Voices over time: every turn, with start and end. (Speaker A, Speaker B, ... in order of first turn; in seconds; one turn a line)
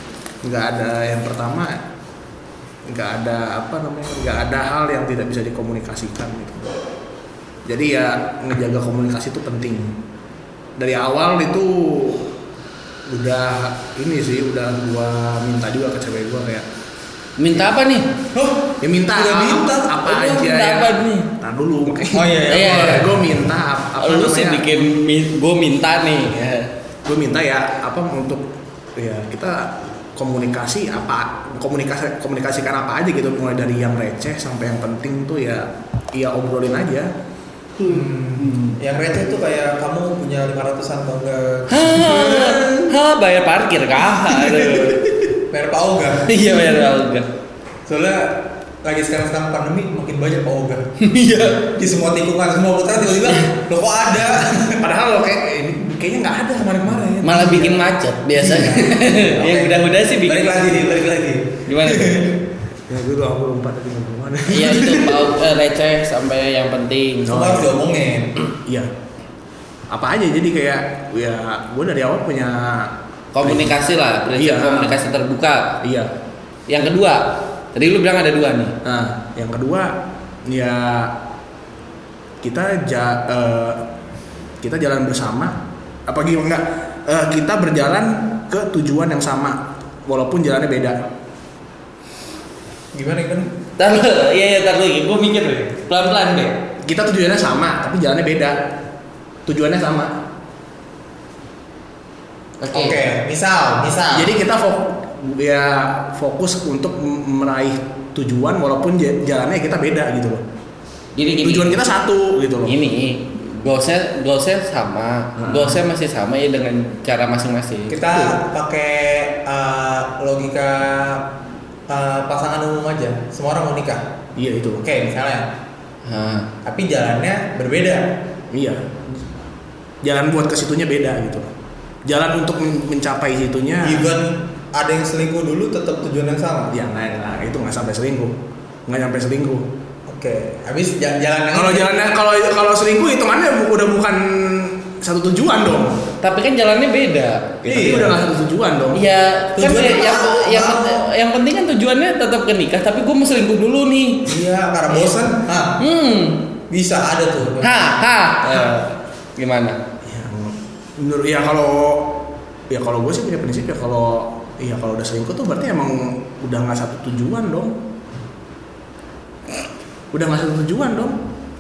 Speaker A: 0.4-1.8
Speaker A: 2.9-6.8
Speaker A: 7.7-10.0
Speaker A: 10.8-12.3
Speaker A: 13.1-16.7
Speaker B: 17.4-18.1
Speaker C: 18.3-20.5
Speaker A: 18.8-24.9
Speaker B: 20.2-21.3
Speaker C: 22.1-23.2
Speaker B: 22.5-23.1
Speaker B: 24.0-26.7
Speaker A: 27.1-37.1
Speaker A: 37.8-38.8
Speaker C: 37.9-42.7
Speaker B: 41.7-45.1
Speaker A: 42.3-42.8
Speaker A: 44.2-45.0
Speaker C: 45.5-46.3
Speaker B: 46.3-47.3
Speaker C: 47.9-50.9
Speaker B: 51.0-51.6
Speaker C: 51.6-54.8
Speaker A: 54.6-57.8
Speaker B: 57.2-60.7
Speaker C: 58.4-62.4
Speaker B: 61.7-62.3
Speaker A: 62.9-65.3
Speaker B: 64.5-67.4
Speaker A: 67.2-67.9
Speaker C: 67.3-68.3
Speaker A: 69.9-73.7
Speaker B: 73.3-75.8
Speaker A: 74.4-75.0
Speaker A: 75.8-76.1
Speaker B: 76.7-78.7
Speaker A: 78.8-79.9
Speaker A: 80.5-81.2
Speaker A: 82.4-83.8
Speaker A: 84.6-91.0
Speaker C: 92.9-93.5
Speaker B: 93.8-96.5
Speaker A: 96.8-98.7
Speaker A: 99.5-100.2
Speaker B: 102.6-103.0
Speaker C: 102.7-104.4
Speaker A: 104.1-110.4
Speaker B: 111.2-111.8
Speaker A: 111.4-112.8
Speaker B: 112.7-118.0
Speaker A: 115.4-115.8
Speaker C: 117.9-121.3
Speaker A: 118.1-118.4
Speaker C: 121.9-124.1
Speaker A: 124.4-124.9
Speaker C: 124.8-125.5
Speaker B: 126.1-126.5
Speaker C: 126.7-128.1
Speaker A: 128.5-129.2
Speaker A: 130.0-131.5
Speaker A: 132.1-134.1
Speaker C: 133.8-136.8
Speaker A: 136.7-139.7
Speaker C: 140.1-141.9
Speaker A: 141.5-146.0
Speaker B: 146.2-148.0
Speaker C: 147.7-148.2
Speaker A: 147.7-149.0
Speaker B: 148.9-154.4
Speaker C: 149.6-151.1
Speaker C: 154.3-155.8
Speaker B: 155.8-156.4
Speaker C: 156.7-158.0
Speaker B: 157.6-159.8
Speaker A: 160.1-167.8
Speaker A: 170.1-171.2